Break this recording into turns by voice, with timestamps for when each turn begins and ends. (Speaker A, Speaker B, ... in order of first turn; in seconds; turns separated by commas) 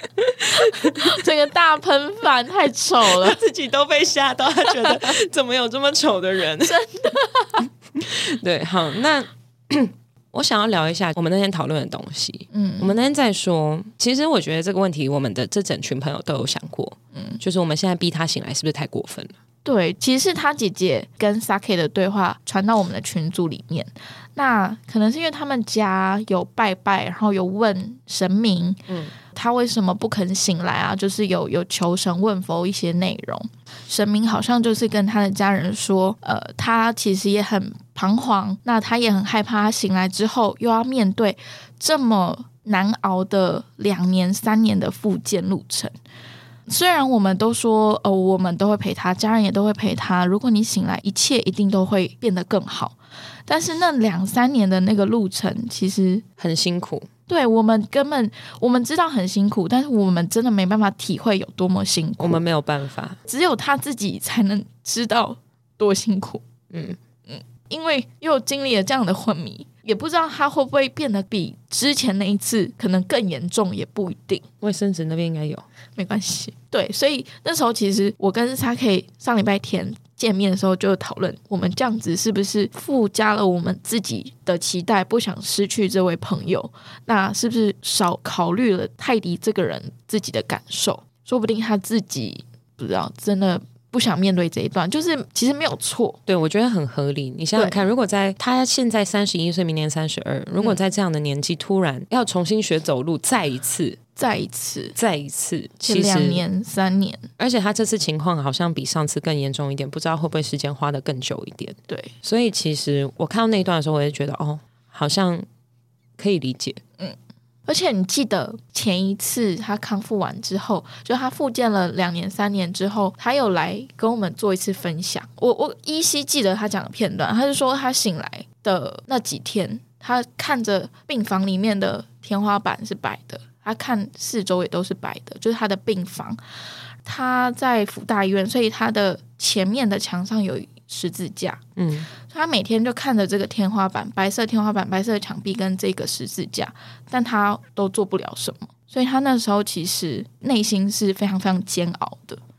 Speaker A: 0.4-1.1, Speaker B: 0.6-3.4, Speaker A: 3.0-6.8, Speaker B: 6.7-7.6, Speaker A: 8.0-19.3, Speaker B: 12.5-12.9, Speaker B: 17.1-17.4, Speaker B: 19.6-45.9, Speaker B: 46.7-52.9, Speaker B: 53.5-56.2, Speaker A: 56.4-57.1, Speaker B: 57.3-62.4, Speaker A: 62.2-63.2, Speaker B: 63.2-66.4, Speaker A: 66.7-67.0, Speaker B: 67.3-74.4, Speaker A: 74.6-75.6, Speaker B: 76.0-96.2, Speaker A: 96.3-104.0, Speaker B: 104.2-105.0, Speaker A: 105.0-106.4, Speaker B: 105.8-107.3, Speaker A: 107.4-115.5, Speaker A: 116.2-116.8, Speaker B: 117.7-136.4, Speaker B: 137.0-141.6, Speaker A: 141.8-142.1, Speaker B: 142.2-152.4